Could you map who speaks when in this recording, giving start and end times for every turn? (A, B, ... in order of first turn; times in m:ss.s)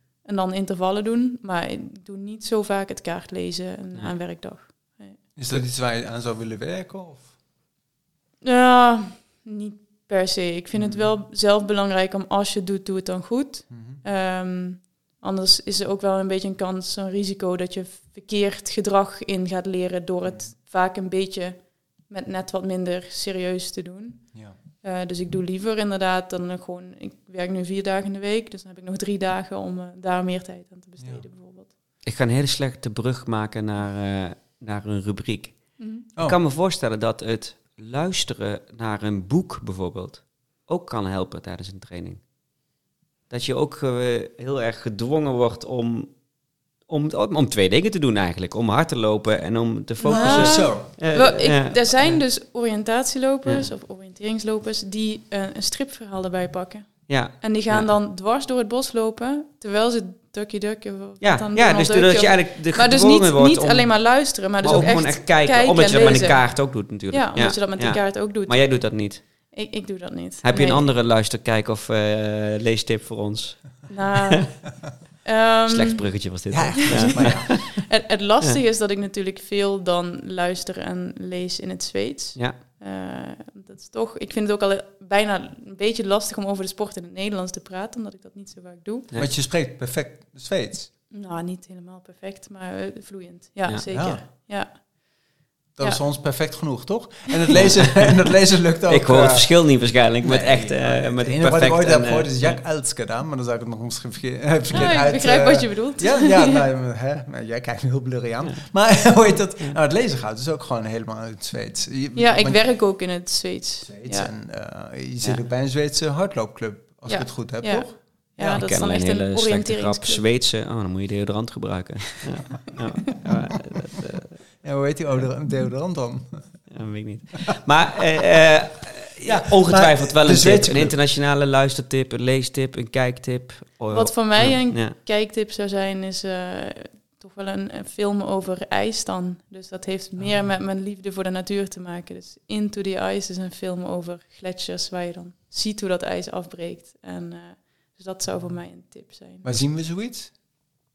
0:00.2-0:05.6 A
0:05.4-0:07.3 B
0:08.4-0:31.7 A
0:10.7-0:11.2 B
0:13.7-0:14.0 B
0:32.0-0:42.2 C
0:35.8-0:36.0 A
0:43.3-0:46.2 C
0:46.8-0:52.1 C
0:50.0-1:10.9 A
0:50.1-0:51.2 B
0:53.4-0:53.7 C
0:57.1-0:57.9 C
1:01.2-1:09.2 C
1:10.4-1:14.4 C
1:13.9-1:16.2 A
1:15.7-1:17.6 C
1:16.5-1:17.6 B
1:16.9-1:29.1 A
1:29.1-1:30.9 B
1:31.1-1:34.8 A
1:33.9-1:34.2 B
1:35.8-1:39.5 B
1:38.9-1:42.6 C
1:40.2-1:52.6 B
1:44.7-1:46.6 A
1:52.2-1:54.3 A
1:53.8-1:58.6 B
1:57.1-2:00.2 A
1:58.5-2:04.4 C
2:04.6-2:06.5 B
2:06.7-2:14.9 C
2:09.2-2:10.9 B
2:13.9-2:29.4 A
2:20.2-2:20.4 B
2:29.4-2:30.3 B